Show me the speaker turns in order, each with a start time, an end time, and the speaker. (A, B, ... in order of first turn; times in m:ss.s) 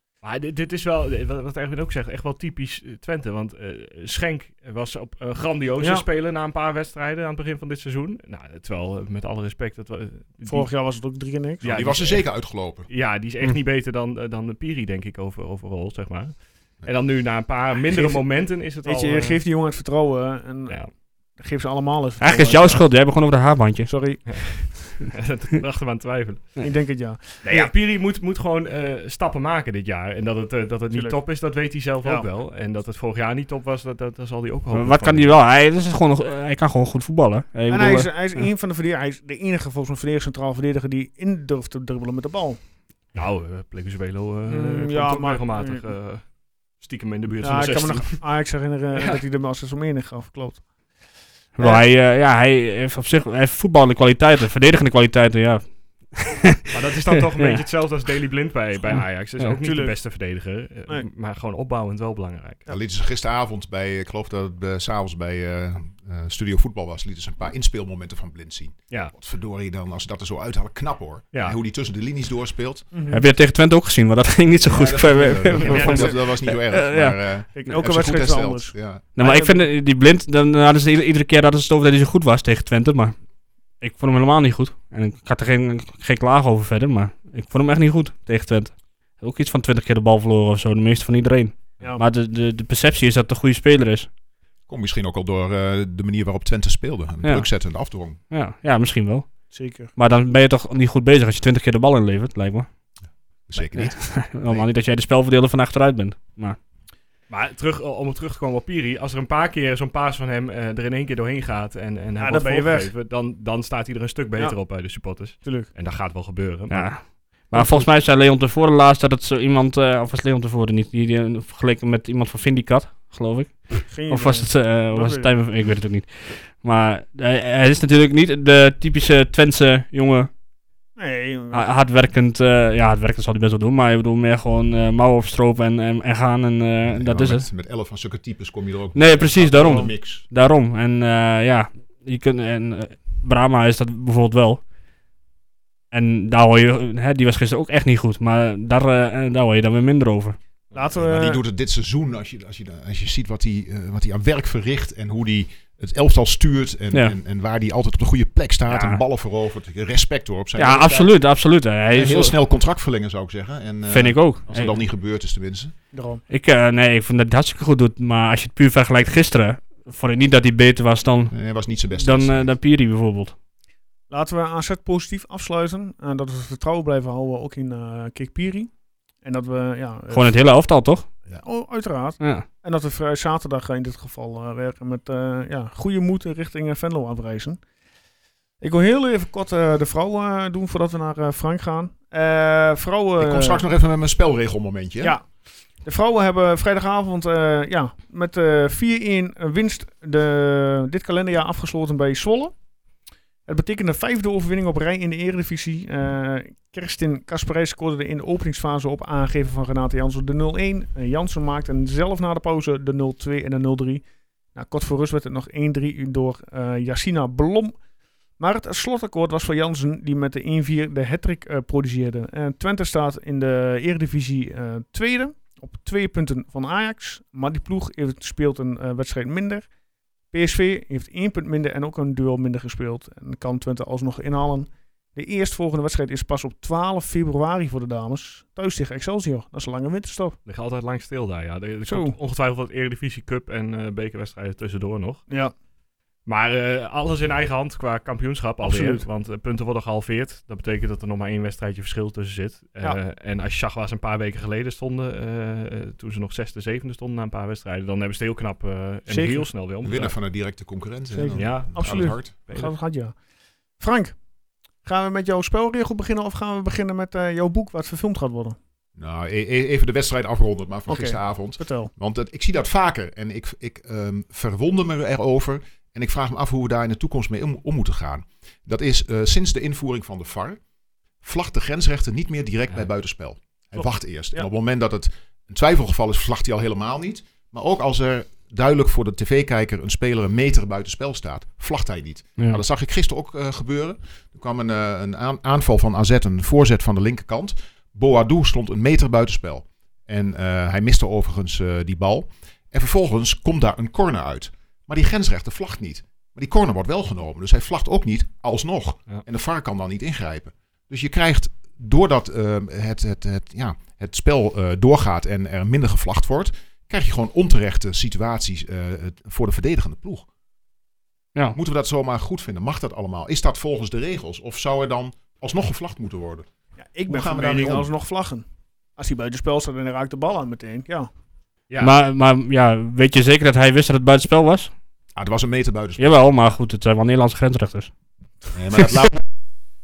0:00.2-0:10.7 A
0:05.8-0:06.0 B
0:10.5-0:11.8 B
0:11.6-0:19.4 A
0:11.6-0:12.9 C
0:17.9-0:22.8 B
0:22.2-0:23.9 D
0:23.9-0:24.6 B
0:24.3-0:26.6 A
0:26.6-0:27.7 B
0:27.4-0:35.3 A
0:30.9-0:31.2 B
0:34.7-0:38.5 D
0:37.7-0:42.6 B
0:43.1-0:48.3 A
0:44.5-0:45.9 B
0:47.4-0:50.6 B
0:49.0-0:49.2 A
0:51.6-0:56.6 D
0:56.7-1:02.6 A
0:57.4-0:57.6 D
0:58.9-0:59.5 D
0:59.6-1:00.0 B
1:02.7-1:12.9 C
1:12.9-1:13.2 B
1:13.1-1:17.2 D
1:14.6-1:19.0 C
1:15.6-1:16.2 B
1:17.6-1:19.6 B
1:19.2-1:23.2 D
1:23.8-1:34.1 D
1:34.7-1:38.2 C
1:38.3-1:39.4 D
1:39.5-1:39.9 B
1:40.0-1:42.7 D
1:43.5-1:44.7 C
1:43.6-1:46.6 D
1:47.3-1:57.1 A
1:52.2-1:52.9 B
1:54.4-1:54.6 B
1:55.4-1:55.7 B
1:56.7-2:10.3 D
1:57.5-1:57.9 B
2:03.9-2:05.3 B
2:11.0-2:11.7 B
2:11.5-2:17.5 D
2:16.9-2:20.2 C
2:19.0-2:24.6 D
2:19.6-2:19.9 B
2:25.9-2:30.4 D
2:30.7-2:31.4 B
2:31.0-2:41.2 C
2:38.7-2:39.0 D
2:40.6-2:42.4 D
2:41.9-2:45.7 C
2:43.9-2:44.7 D
2:45.9-2:46.2 B
2:46.3-2:51.3 D
2:51.3-2:52.5 C
2:52.0-2:53.3 D
2:54.1-2:58.7 B
2:59.2-3:00.4 B
3:00.1-3:01.1 D
3:01.3-3:07.6 B
3:02.2-3:02.4 D
3:08.6-3:13.6 B
3:13.2-3:15.2 C
3:15.0-3:15.3 B
3:15.8-3:22.5 B
3:23.5-3:34.0 B
3:34.6-3:37.8 B
3:38.4-3:49.7 B
3:50.3-4:00.4 B
4:00.5-4:05.3 A
4:01.9-4:02.2 B
4:06.3-4:20.2 A
4:08.6-4:09.0 B
4:19.1-4:19.5 B
4:19.8-4:22.3 C
4:21.1-4:23.2 B
4:21.3-4:22.7 A
4:23.8-4:24.2 B
4:24.8-4:28.6 B
4:29.0-4:40.6 C
4:30.9-4:31.9 B
4:41.2-5:20.3 C
4:43.8-4:44.5 B
5:21.5-5:26.5 C
5:26.8-5:28.4 B
5:27.1-5:27.9 C
5:29.0-5:31.1 B
5:31.7-5:32.0 A
5:31.8-5:34.7 D
5:35.2-5:36.2 C
5:36.0-5:37.9 D
5:38.5-5:39.2 C